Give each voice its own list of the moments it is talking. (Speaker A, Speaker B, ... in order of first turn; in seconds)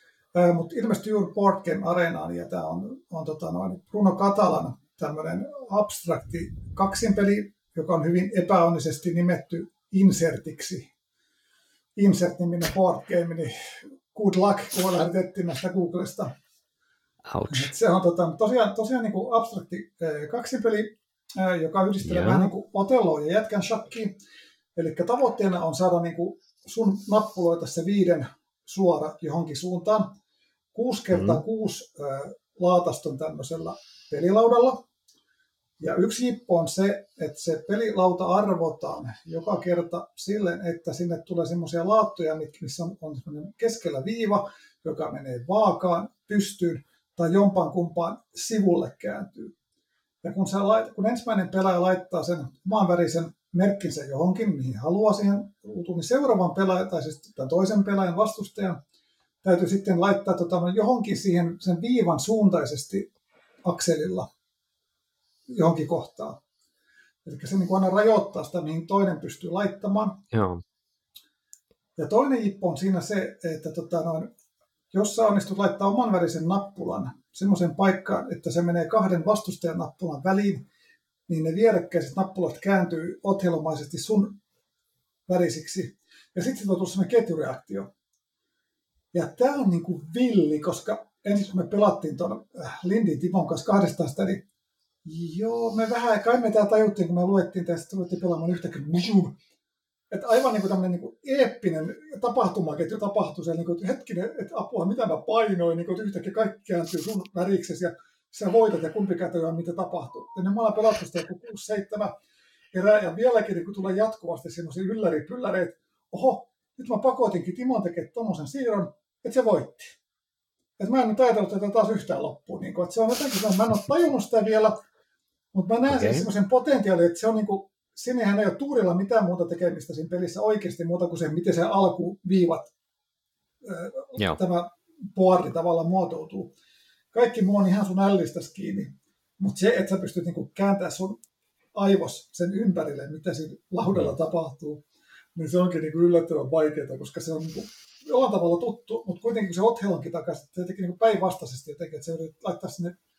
Speaker A: 0.3-10.9, 12.0-16.3, 17.5-24.2, 24.8-30.2, 30.7-34.9, 35.8-49.5, 50.2-58.8, 59.4-63.1, 63.6-64.3, 65.5-66.4, 67.2-70.2, 72.0-74.3, 74.9-80.7, 81.3-84.4, 85.3-87.9, 89.1-94.4, 95.0-99.4, 100.1-112.2, 112.7-120.0, 120.8-124.8, 125.5-132.7, 133.6-136.5, 137.1-141.2, 141.8-144.8, 145.3-153.0
Speaker B: 17.3-17.7, 22.0-22.5, 31.1-31.4, 70.3-70.6, 125.9-126.3